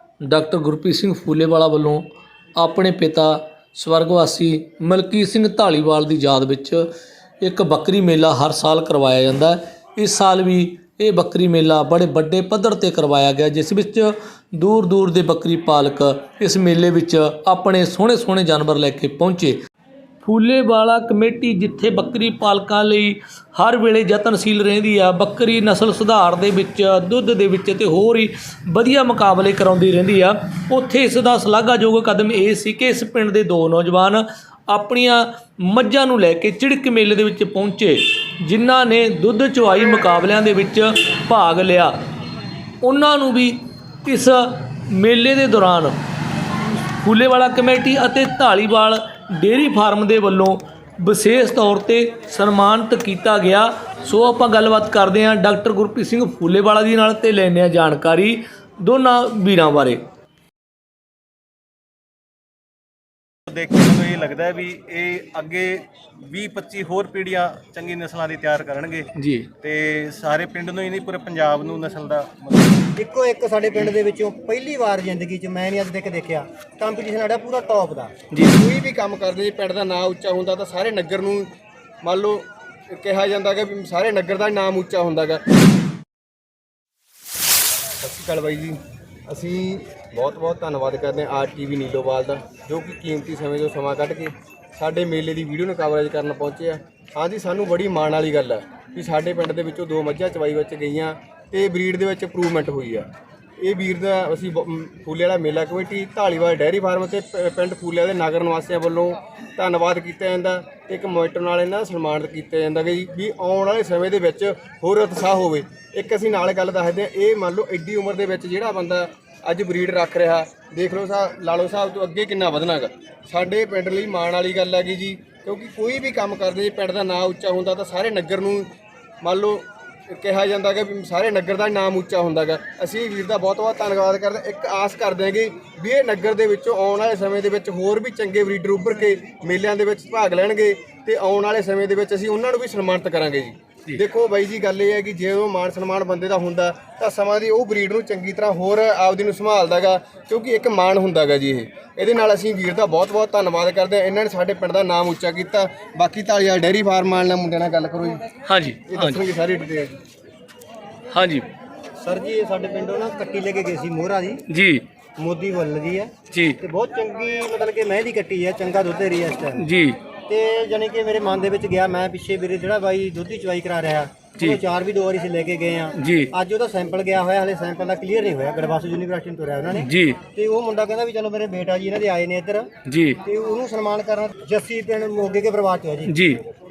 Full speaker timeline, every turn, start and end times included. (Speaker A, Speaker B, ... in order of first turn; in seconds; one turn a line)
Speaker A: 0.2-2.0
Speaker A: 2.6-6.9
Speaker A: 7.4-19.6
Speaker A: 20.2-41.9
Speaker A: 42.8-46.0
Speaker A: 47.0-60.0
Speaker B: 63.5-69.1
Speaker A: 69.1-69.5
Speaker B: 69.6-72.9
Speaker C: 73.0-78.1
Speaker A: 78.3-78.6
Speaker D: 78.4-81.5
Speaker D: 82.0-85.4
Speaker D: 88.0-103.1
Speaker D: 103.6-128.7
Speaker D: 129.2-158.2
Speaker A: 158.5-159.2
Speaker D: 158.9-159.9
Speaker A: 161.1-161.5
Speaker C: 162.0-164.4
Speaker A: 164.5-164.8
Speaker C: 165.2-169.7
Speaker A: 166.3-166.6
Speaker A: 169.6-170.0
Speaker C: 170.3-182.7
Speaker A: 175.9-176.3
Speaker A: 179.8-180.2
Speaker A: 182.8-183.2
Speaker C: 183.2-186.1
Speaker A: 186.1-186.4